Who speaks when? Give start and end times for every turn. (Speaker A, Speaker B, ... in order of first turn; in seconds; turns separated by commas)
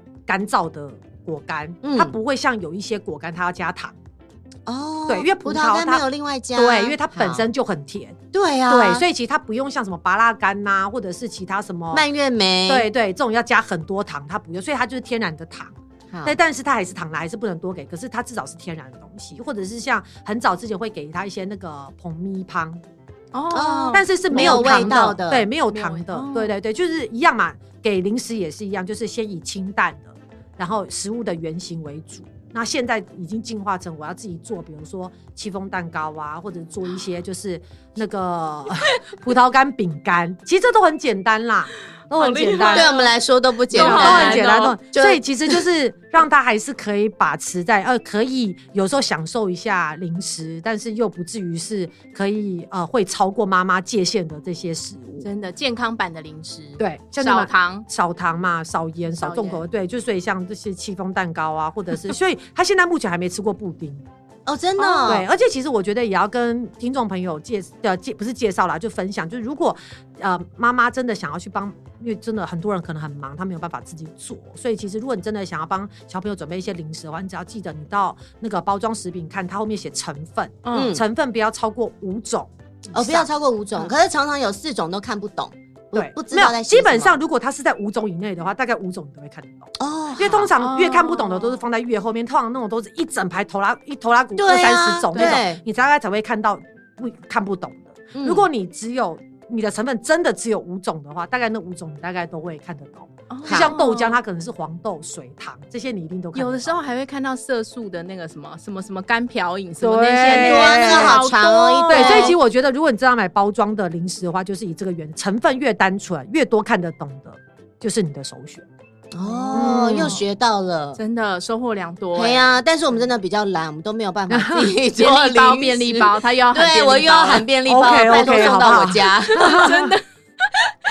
Speaker A: 0.3-4.0, Speaker B: 1.8-2.1, Speaker B: 4.7-7.5, Speaker A: 5.1-12.1, Speaker B: 8.3-9.1, Speaker B: 11.9-12.9, Speaker A: 12.7-22.8, Speaker B: 16.1-16.4, Speaker C: 23.3-24.9, Speaker B: 23.5-25.5, Speaker A: 23.9-42.9, Speaker C: 25.7-26.6, Speaker C: 42.2-43.1, Speaker B: 42.7-45.6, Speaker C: 43.7-44.8, Speaker A: 43.7-55.3, Speaker C: 55.2-57.9, Speaker A: 56.8-64.0, Speaker C: 59.1-59.6, Speaker B: 64.5-65.3, Speaker C: 64.8-65.1, Speaker A: 65.0-83.3, Speaker C: 80.7-81.0, Speaker B: 80.7-81.0, Speaker B: 82.9-87.2, Speaker A: 85.9-106.8, Speaker B: 89.8-90.5, Speaker C: 90.6-91.6, Speaker B: 94.4-95.6, Speaker C: 95.1-95.4, Speaker B: 98.1-98.5, Speaker C: 103.3-104.2, Speaker B: 103.5-103.7, Speaker C: 106.3-112.4, Speaker A: 109.8-111.2, Speaker B: 110.3-112.4, Speaker A: 111.9-118.7, Speaker B: 119.1-121.0, Speaker C: 119.3-120.2, Speaker A: 119.5-120.2, Speaker C: 121.0-122.6, Speaker B: 122.1-129.6, Speaker A: 124.3-124.7, Speaker C: 124.9-130.5, Speaker A: 127.7-130.0